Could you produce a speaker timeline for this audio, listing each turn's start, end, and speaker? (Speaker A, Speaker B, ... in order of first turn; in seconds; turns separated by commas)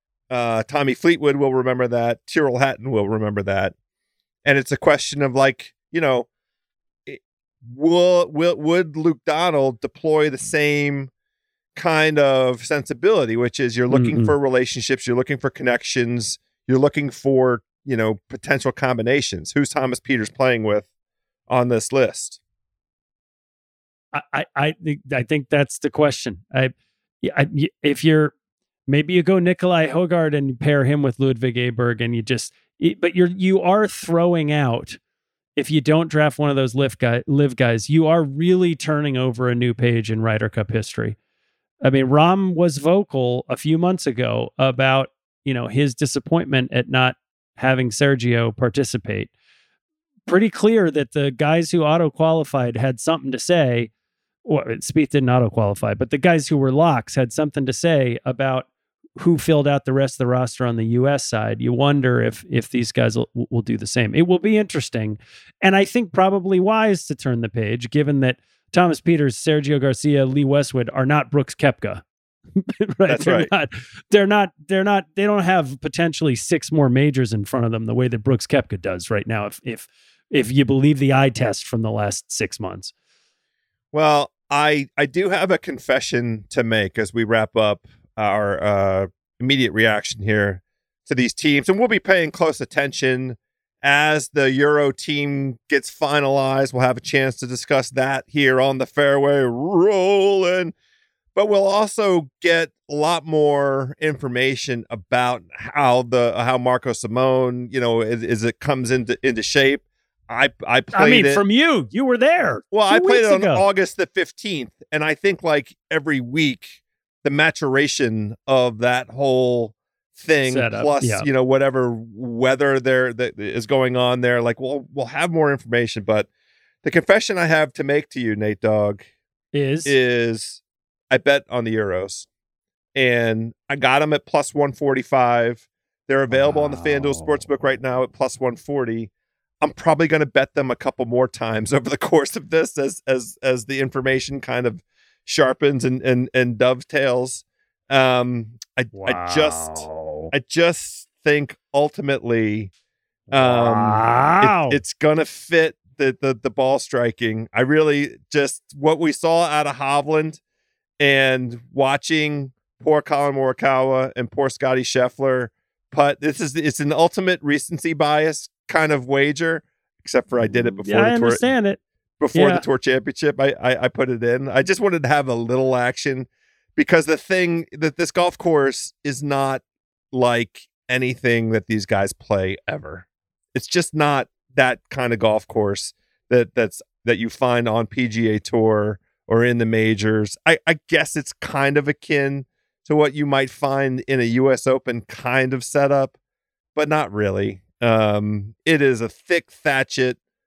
Speaker A: 0.3-3.7, Speaker A: 4.5-6.3, Speaker A: 7.1-11.1, Speaker A: 11.8-20.9, Speaker B: 13.9-14.3, Speaker A: 21.5-22.4, Speaker B: 24.1-28.3, Speaker B: 28.9-35.0, Speaker B: 35.6-41.2, Speaker B: 41.8-49.3, Speaker B: 50.3-53.9, Speaker B: 54.5-58.7, Speaker B: 59.2-72.0, Speaker B: 72.6-82.9, Speaker A: 73.1-73.5, Speaker A: 83.9-100.7, Speaker A: 101.3-111.4, Speaker B: 110.9-113.7, Speaker A: 112.7-126.3, Speaker B: 120.5-121.3, Speaker A: 126.8-129.1, Speaker B: 129.5-129.9, Speaker A: 129.9-132.3, Speaker A: 132.9-139.1, Speaker A: 139.6-152.7, Speaker B: 149.0-150.3, Speaker B: 153.3-154.8, Speaker A: 153.3-160.4, Speaker A: 161.0-171.5, Speaker B: 170.8-171.8, Speaker A: 172.2-196.1, Speaker B: 172.3-172.6, Speaker A: 196.8-200.2